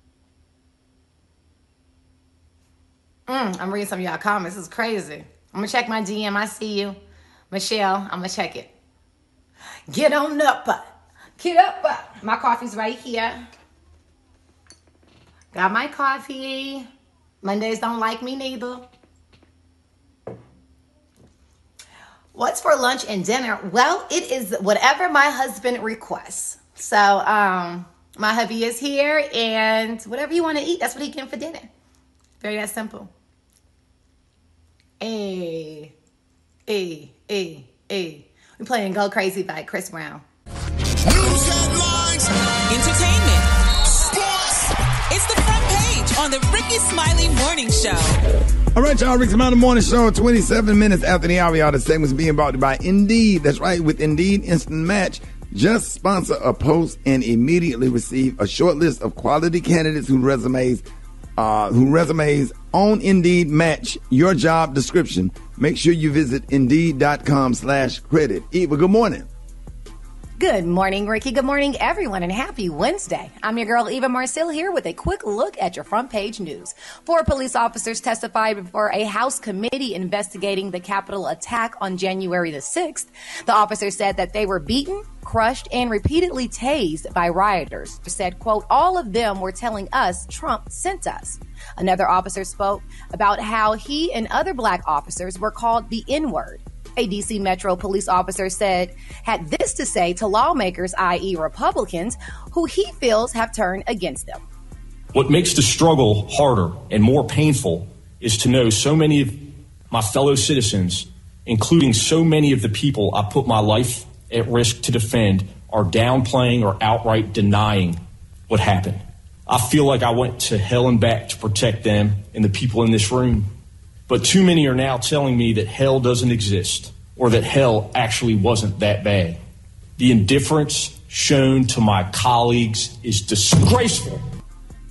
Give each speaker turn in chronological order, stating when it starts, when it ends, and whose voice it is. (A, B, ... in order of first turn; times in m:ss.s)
0:03.3-0:07.0 A
0:07.5-0:08.7 A
0:09.9-0:13.4 A
0:15.5-0:16.8 A
0:17.4-0:18.8 A
0:22.3-0:31.7 A
0:32.4-0:33.1 A
0:35.0-0:35.9 A
0:36.7-0:40.2 A
0:41.1-0:42.2 B
0:42.7-0:43.5 C
0:45.1-0:48.2 C
0:48.7-1:00.8 B
1:01.4-1:09.3 B
1:10.4-1:44.4 A
1:45.1-2:03.5 D
2:04.1-2:09.4 D
2:10.0-2:14.2 D